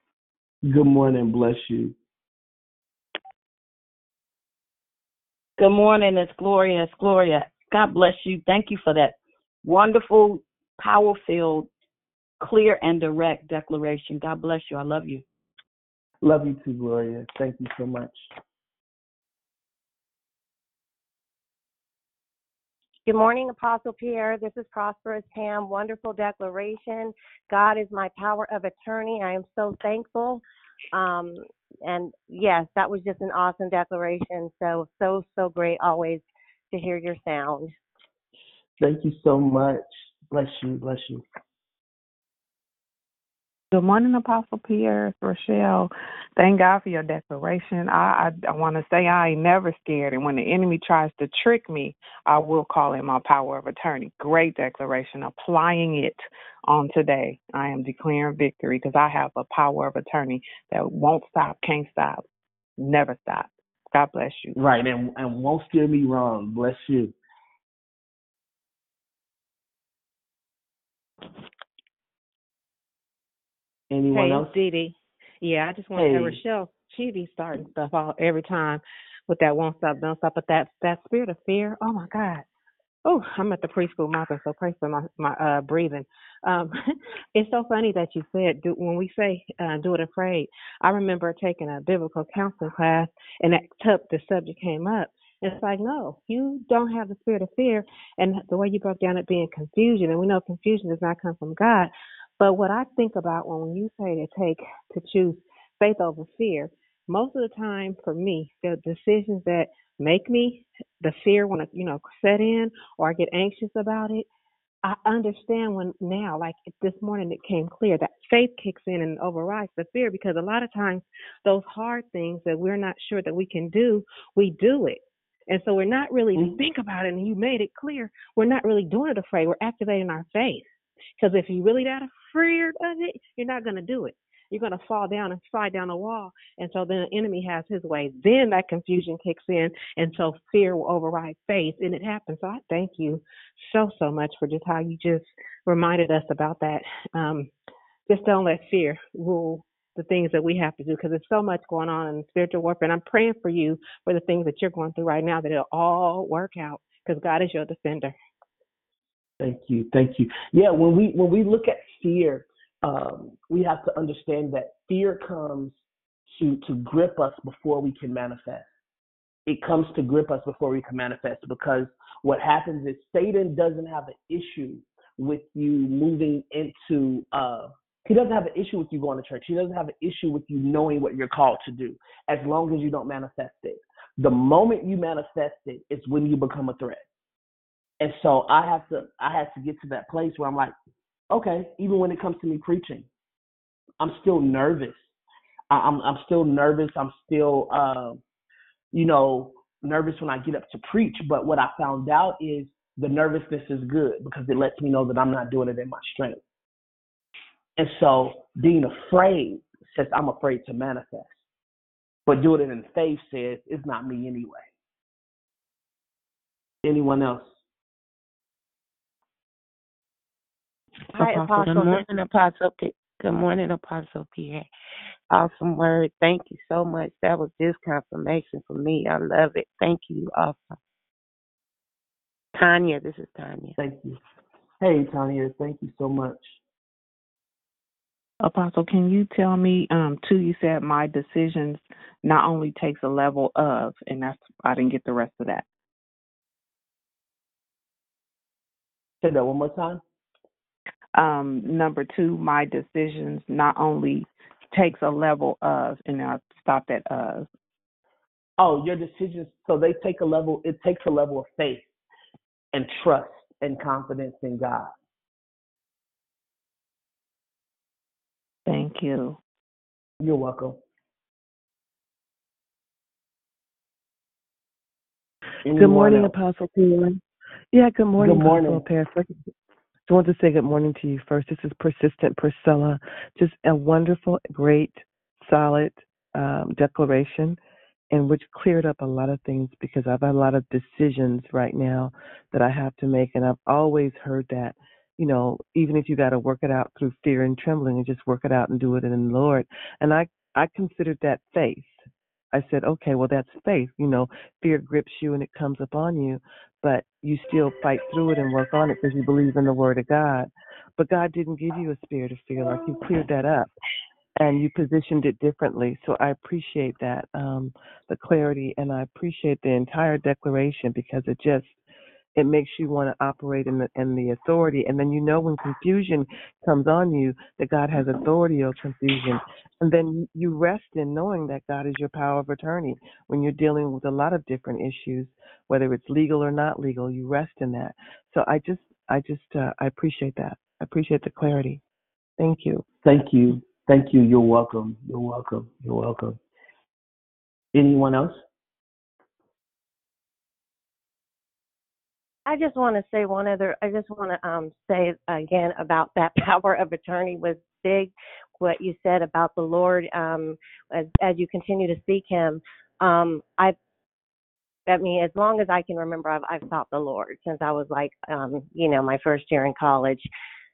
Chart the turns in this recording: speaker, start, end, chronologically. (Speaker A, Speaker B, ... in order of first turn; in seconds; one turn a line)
Speaker A: 0.6-1.9
Speaker B: 5.6-11.7
Speaker B: 12.4-15.2
Speaker A: 16.2-18.3
Speaker C: 23.1-30.4
Speaker C: 30.9-37.7
Speaker A: 38.8-41.2
Speaker D: 43.7-62.2
Speaker D: 62.8-64.5
Speaker A: 64.5-67.1
Speaker A: 73.9-74.5
Speaker E: 74.1-82.4
Speaker A: 76.0-76.4
Speaker E: 83.0-86.7
Speaker E: 87.3-114.3
Speaker E: 114.8-147.5
Speaker E: 148.1-158.1
Speaker A: 159.4-165.8
Speaker A: 166.3-168.7
Speaker A: 169.5-187.0
Speaker A: 188.0-190.7
Speaker A: 191.3-193.1
Speaker A: 194.0-195.1
Speaker A: 195.7-198.2
Speaker A: 198.9-206.4
Speaker A: 207.8-211.4
Speaker A: 212.3-214.7
Speaker A: 216.8-217.5
Speaker F: 221.1-224.7
Speaker C: 221.2-222.0
Speaker F: 225.3-230.8
Speaker F: 232.5-233.8
Speaker A: 233.8-234.2
Speaker A: 234.8-236.6
Speaker D: 238.4-245.6
Speaker A: 249.2-250.0
Speaker D: 251.2-257.4
Speaker A: 258.6-261.9
Speaker A: 262.7-264.9
Speaker D: 268.7-269.4
Speaker A: 270.2-270.8
Speaker A: 275.6-276.4
Speaker G: 275.7-277.2
Speaker G: 277.7-279.4
Speaker A: 278.2-278.8
Speaker G: 280.1-287.6
Speaker G: 288.1-313.7
Speaker G: 314.4-321.8
Speaker G: 322.4-341.8
Speaker G: 342.4-342.8
Speaker A: 343.0-346.4
Speaker A: 347.7-348.4
Speaker C: 352.4-363.8
Speaker C: 364.9-370.3